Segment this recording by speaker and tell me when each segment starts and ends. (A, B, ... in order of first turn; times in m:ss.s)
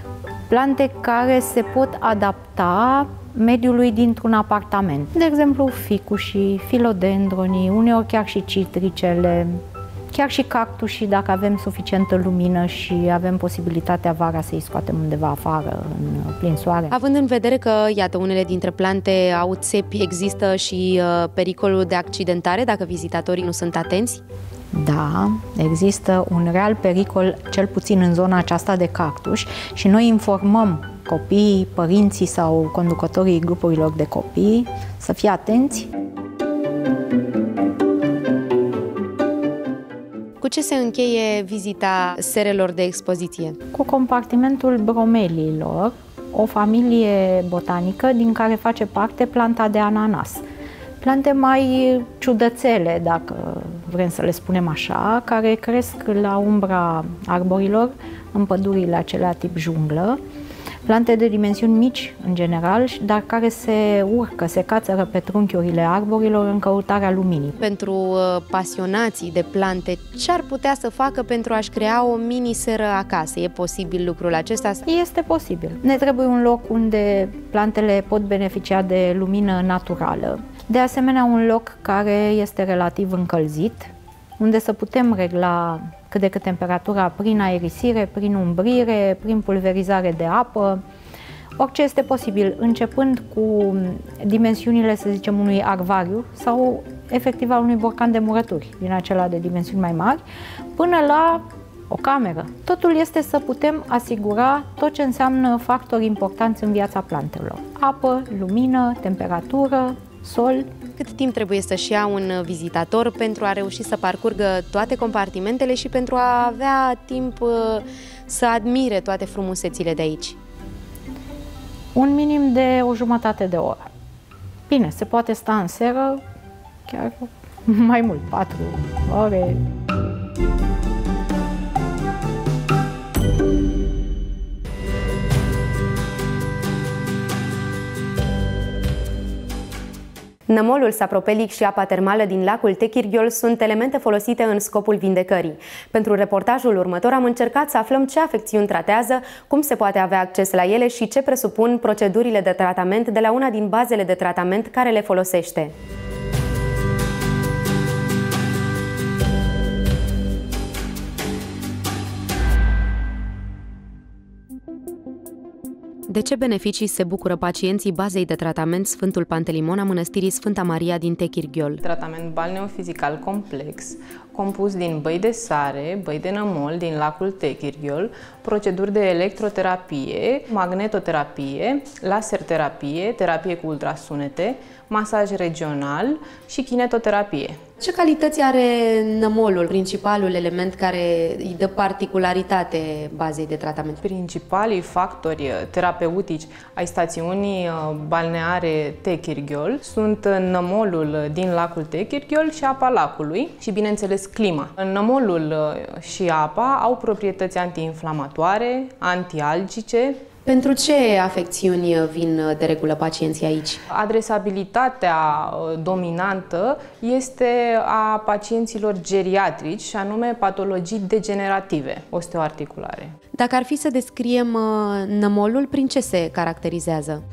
0:00.5-0:09.6 A
0:10.1-0:17.0 A
0:16.9-0:24.2 B
0:24.7-0:35.9 A
0:40.4-0:43.6 B
0:43.7-0:50.4 A
0:51.0-1:00.2 A
1:00.8-1:07.6 A
1:07.6-1:14.8 B
1:14.9-1:30.8 A
1:31.6-1:40.2 A
1:40.8-1:50.7 A
1:51.0-2:00.4 B
2:02.0-2:03.9 A
2:04.7-2:06.2 A
2:06.9-2:09.6 A
2:20.5-2:35.7 B
2:46.1-2:51.8 B
2:51.8-3:07.6 C
3:07.8-3:14.0 B
3:14.0-3:30.2 C
3:30.5-3:33.8 B
3:33.9-3:43.2 C
3:43.4-3:47.2 B